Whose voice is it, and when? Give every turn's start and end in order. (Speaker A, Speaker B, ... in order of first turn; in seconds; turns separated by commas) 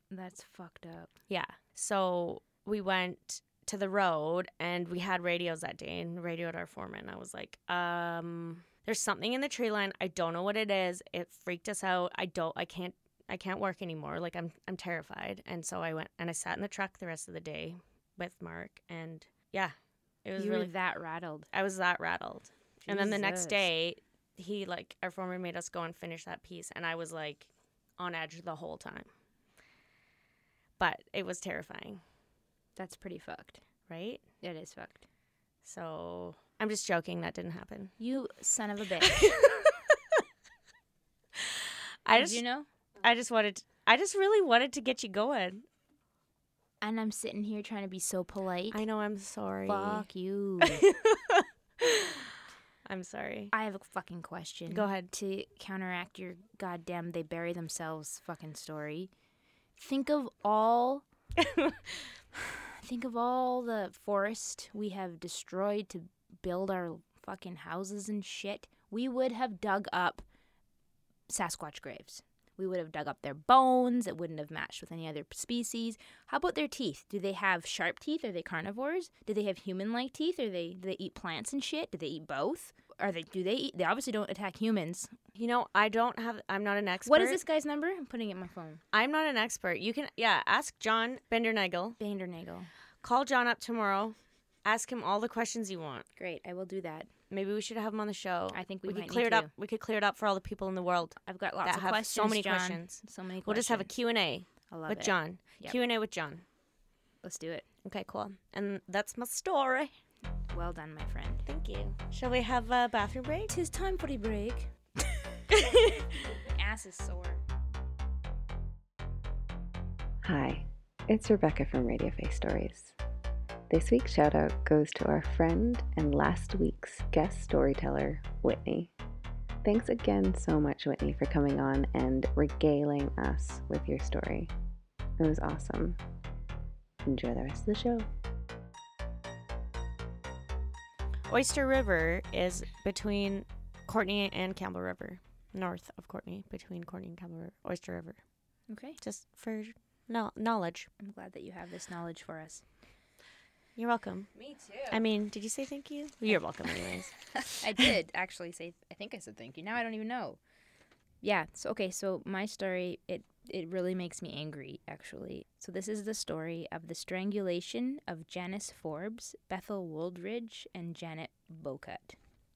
Speaker A: 0.1-1.1, Speaker B: 1.3-20.7, Speaker A: 20.4-21.5, Speaker B: 21.5-29.1, Speaker A: 22.9-23.7, Speaker B: 30.8-32.0, Speaker A: 32.8-33.6, Speaker B: 33.9-34.2, Speaker A: 34.4-35.1, Speaker B: 35.6-38.0, Speaker A: 38.0-39.2, Speaker B: 39.0-40.2, Speaker B: 41.4-42.4, Speaker A: 42.1-42.7, Speaker B: 43.0-45.6, Speaker A: 46.8-48.8, Speaker B: 48.7-50.1, Speaker A: 49.7-50.9, Speaker B: 50.6-52.3, Speaker B: 52.9-53.5, Speaker A: 53.5-59.1, Speaker B: 54.7-55.1, Speaker A: 59.8-61.1, Speaker B: 61.4-61.8, Speaker A: 62.4-70.2, Speaker A: 71.3-85.1, Speaker B: 85.3-87.4, Speaker A: 87.1-88.8, Speaker B: 88.9-92.0, Speaker A: 92.0-92.7, Speaker B: 93.0-96.1, Speaker A: 96.2-97.1, Speaker B: 97.3-106.5, Speaker A: 98.5-99.5, Speaker A: 101.2-103.9, Speaker A: 104.7-105.8, Speaker A: 107.2-107.7, Speaker B: 107.8-109.9, Speaker A: 110.5-111.5, Speaker B: 111.5-113.5, Speaker A: 113.5-114.7, Speaker B: 115.6-116.0, Speaker A: 115.7-117.4, Speaker C: 120.2-122.9, Speaker C: 123.7-128.9, Speaker C: 129.6-134.5, Speaker C: 135.2-136.0, Speaker C: 137.1-138.1, Speaker B: 141.3-148.2, Speaker A: 148.7-149.0, Speaker B: 149.0-150.9, Speaker A: 151.0-152.7, Speaker B: 153.8-154.3, Speaker A: 154.4-154.9, Speaker B: 154.9-157.3, Speaker A: 157.6-160.4, Speaker A: 161.2-172.2